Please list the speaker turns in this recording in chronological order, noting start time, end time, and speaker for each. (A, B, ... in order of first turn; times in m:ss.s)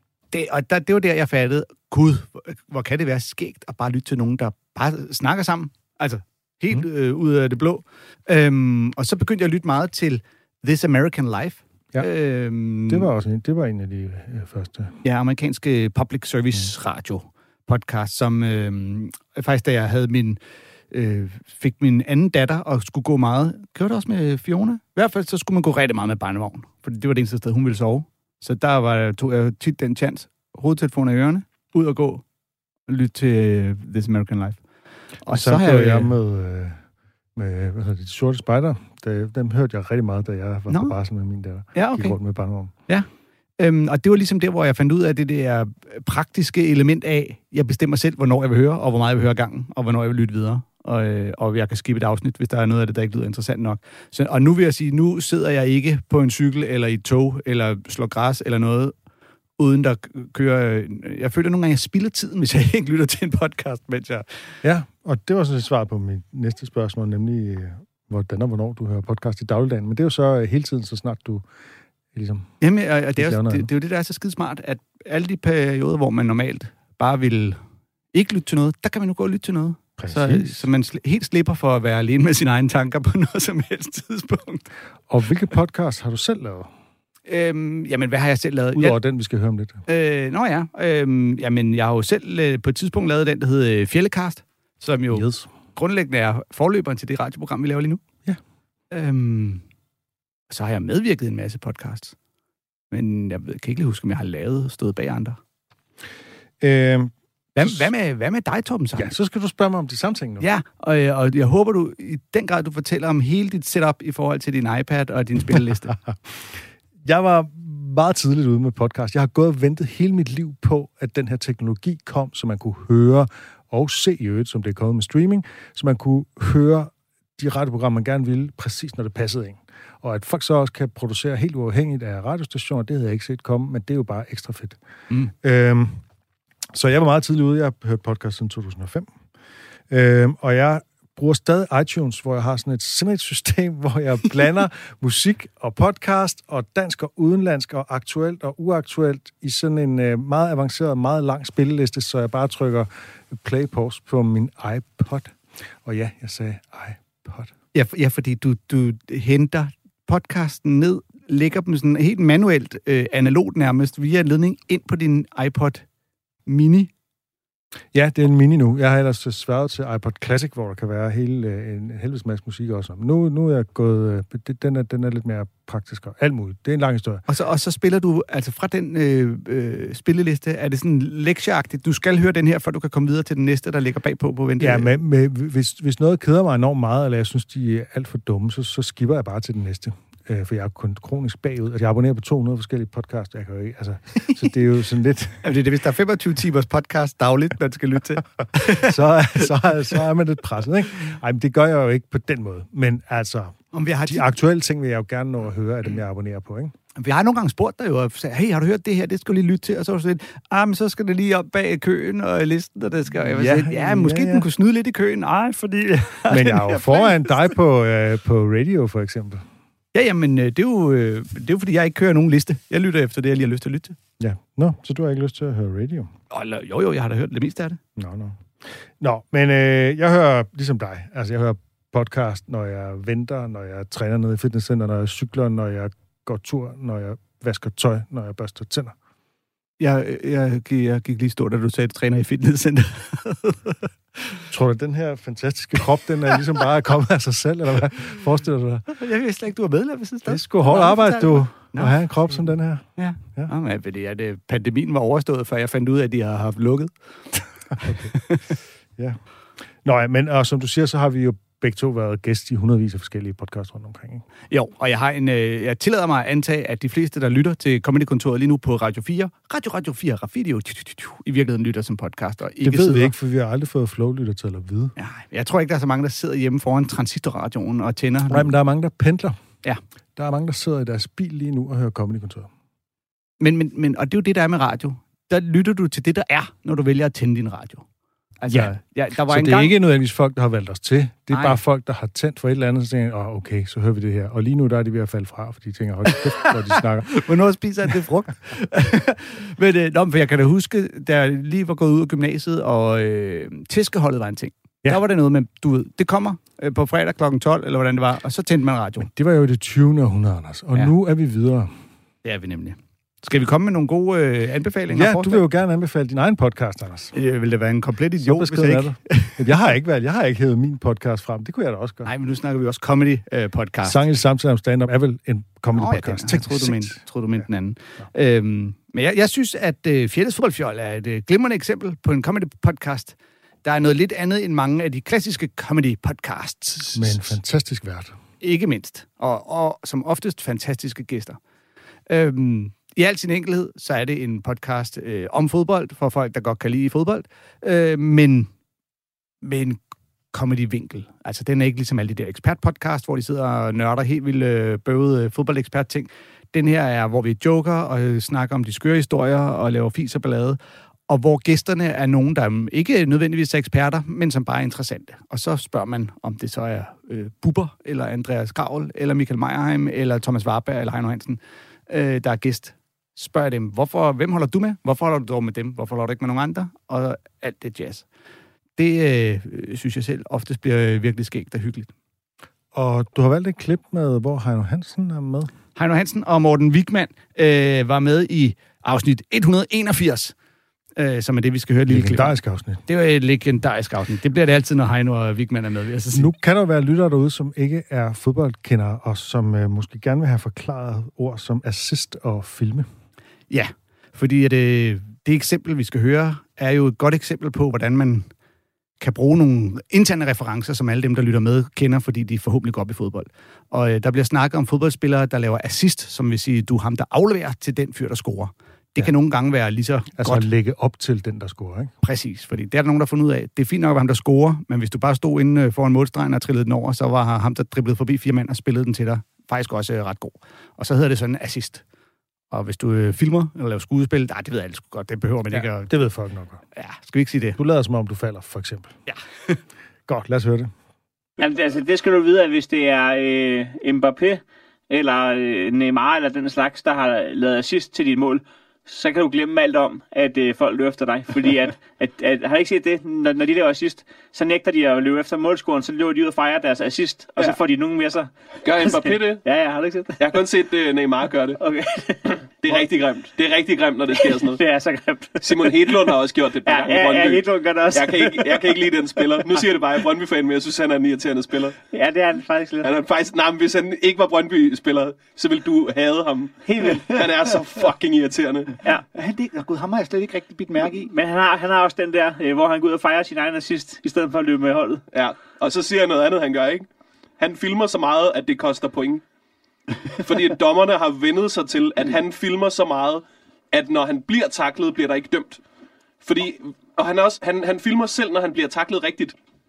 0:00.3-0:13.1 A
0:12.9-0:15.0 B
0:15.0-0:20.4 A
0:20.9-0:32.2 A
0:32.9-0:34.6 A
0:35.2-0:36.1 A
0:35.3-0:36.8 B
0:37.4-0:42.7 B
0:40.7-0:41.0 A
0:41.7-0:42.2 A
0:43.6-0:58.9 A
0:59.6-1:04.3 A
1:04.6-1:11.5 B
1:12.1-1:12.5 B
1:12.6-1:17.6 A
1:13.2-1:13.7 B
1:18.1-1:24.7 A
1:20.0-1:20.7 B
1:25.1-1:26.7 B
1:27.3-1:29.0 A
1:28.8-1:29.8 B
1:29.9-1:38.0 A
1:35.1-1:35.5 B
1:38.9-1:39.6 A
1:40.5-1:42.2 A
1:42.9-1:45.4 A
1:46.6-1:47.9 B
1:47.6-1:49.1 A
1:49.0-1:50.5 B
1:50.4-1:56.0 A
1:55.9-2:14.8 B
2:15.4-2:16.0 B
2:16.7-2:19.1 B
2:19.9-2:37.5 B
2:37.7-2:45.8 A
2:46.5-2:46.9 A
2:47.9-2:57.2 B
2:57.3-3:04.9 A
3:04.6-3:15.5 B
3:15.4-3:18.9 A
3:18.7-3:26.8 B
3:23.7-3:24.3 A
3:27.0-3:37.4 A
3:33.2-3:34.5 B
3:36.3-3:39.5 B
3:39.9-3:44.0 A
3:44.2-3:46.1 B
3:46.3-3:47.8 A
3:48.0-3:59.0 B
3:59.8-4:04.4 A
4:04.5-4:08.9 B
4:08.9-4:12.0 A
4:10.3-4:13.5 B
4:13.0-4:16.9 A
4:17.8-4:18.1 B
4:19.8-4:24.2 B
4:24.5-4:33.1 A
4:32.6-4:35.0 B
4:35.0-4:38.5 A
4:38.3-4:39.4 B
4:40.2-4:42.5 B
4:43.4-4:47.8 A
4:48.4-4:49.8 A
4:48.5-4:48.8 B
4:49.3-4:57.2 B
4:51.3-4:51.6 A
4:57.1-5:09.1 A
5:09.0-5:11.8 B
5:12.2-5:15.4 A
5:14.9-5:17.1 B
5:17.1-5:19.4 A
5:18.2-5:22.1 B
5:22.0-5:24.0 A
5:23.8-5:27.0 B
5:25.8-5:37.4 A
5:37.0-5:38.2 B
5:38.4-5:41.4 A
5:42.1-5:48.5 A
5:49.4-5:49.8 A
5:50.3-6:00.6 A
6:01.1-6:18.1 A
6:18.8-6:21.9 A
6:22.7-6:25.5 B
6:25.8-6:30.4 A
6:31.0-6:36.3 A
6:31.9-6:32.8 B
6:36.1-6:42.9 B
6:43.5-6:48.3 A
6:49.0-7:00.5 A
7:00.2-7:01.9 B
7:02.0-7:11.8 A
7:12.5-7:15.9 A
7:15.5-7:16.6 B
7:16.8-7:17.6 A
7:17.6-7:19.0 B
7:20.1-7:20.7 B
7:21.4-7:40.4 C
7:38.6-7:39.5 D
7:40.2-7:41.6 D
7:41.6-7:42.9 C
7:42.6-7:44.6 D
7:44.1-7:46.0 C
7:45.4-7:51.8 D
7:46.7-7:48.8 C
7:51.9-7:52.9 C
7:52.8-7:58.7 D
7:56.8-7:57.4 E
7:59.1-8:01.1 E
8:01.1-8:05.0 C
8:05.1-8:06.9 D
8:07.4-8:09.2 D
8:10.2-8:15.6 D
8:16.2-8:19.4 D